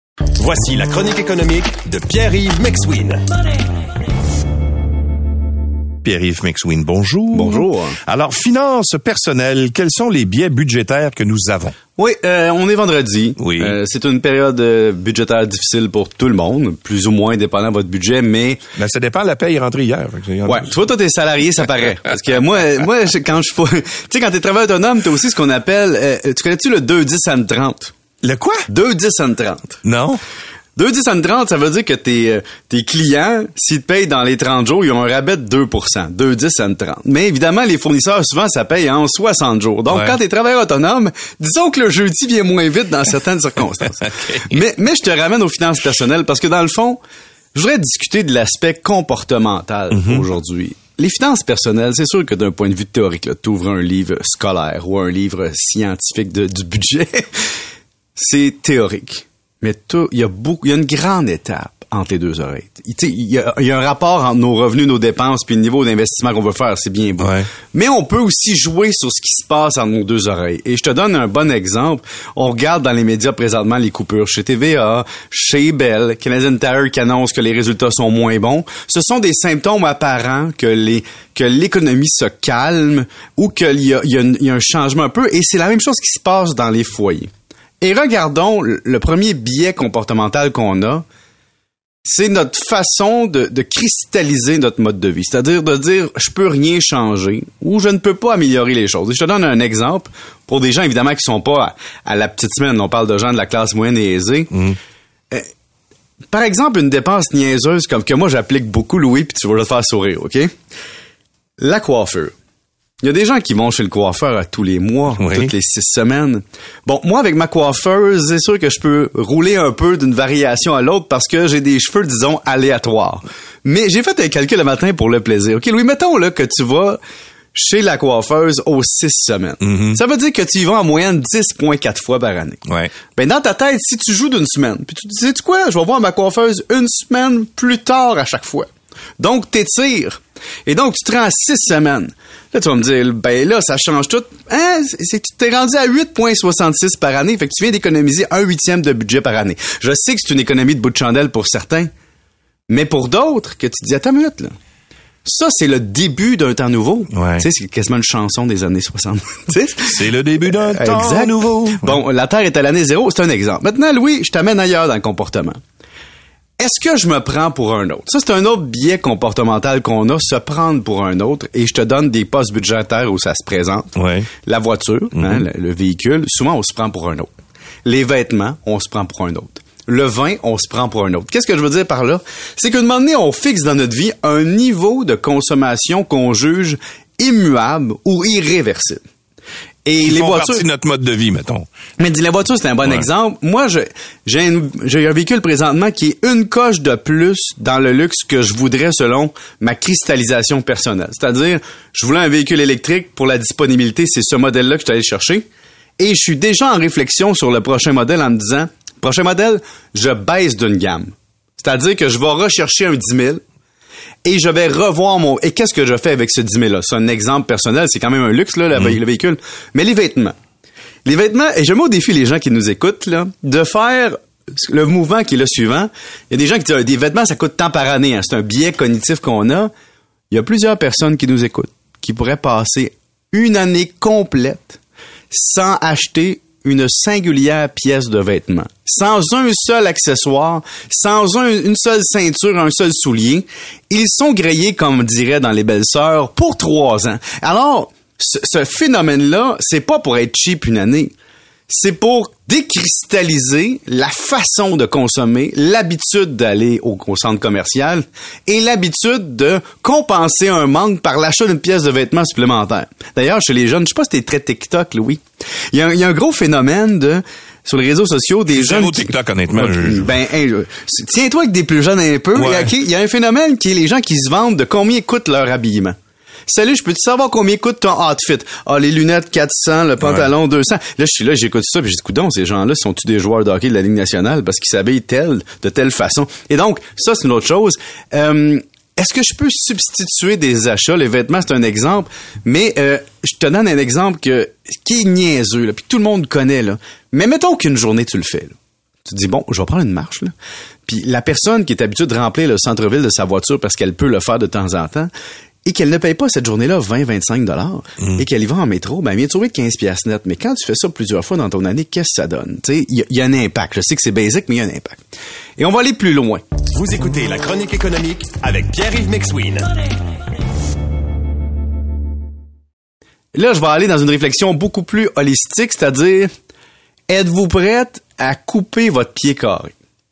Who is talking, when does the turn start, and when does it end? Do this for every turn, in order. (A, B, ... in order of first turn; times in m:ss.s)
0:00.4-0:03.2 A
0:06.0-0:11.8 B
0:07.3-0:08.0 C
0:12.0-0:18.6 C
0:13.4-0:13.8 B
0:18.7-0:21.0 B
0:20.5-0:27.9 C
0:28.2-0:28.7 B
0:28.7-0:29.8 C
0:29.8-0:30.2 B
0:30.8-0:47.0 C
0:39.9-0:40.2 B
0:43.8-0:44.6 B
0:47.5-0:57.3 C
0:49.9-0:50.3 B
0:58.2-1:27.3 C
1:07.2-1:07.5 B
1:27.8-1:31.0 C
1:32.0-1:44.5 C
1:44.5-1:44.8 B
1:46.3-1:50.5 C
1:51.6-1:52.3 C
1:53.0-2:07.0 C
1:55.1-1:55.5 B
2:07.5-2:12.6 C
2:09.6-2:10.0 B
2:12.7-2:12.9 B
2:13.1-2:18.7 C
2:19.2-2:31.9 C
2:32.7-2:34.5 C
2:35.2-2:39.9 C
2:37.1-2:37.5 B
2:39.8-2:42.0 B
2:40.7-2:45.6 C
2:46.6-2:53.9 C
2:53.9-2:54.3 B
2:54.5-2:57.3 C
2:55.2-2:55.4 B
2:57.8-3:09.0 C
3:09.8-3:10.6 C
3:10.0-3:11.7 B
3:12.0-3:25.4 C
3:12.8-3:13.1 B
3:26.0-3:33.4 C
3:34.2-3:40.3 C
3:38.7-3:39.0 B
3:41.0-3:49.7 C
3:50.3-3:54.8 C
3:55.3-4:11.1 C
4:11.7-4:36.0 C
4:28.5-4:30.2 B
4:32.3-4:32.7 B
4:36.5-4:58.5 C
4:40.0-4:40.3 B
4:59.0-5:00.3 C
5:00.9-5:05.1 C
5:05.6-5:15.0 C
5:08.0-5:08.2 B
5:15.6-5:16.4 C
5:16.7-5:19.7 A
5:23.3-5:26.3 C
5:27.1-5:29.7 C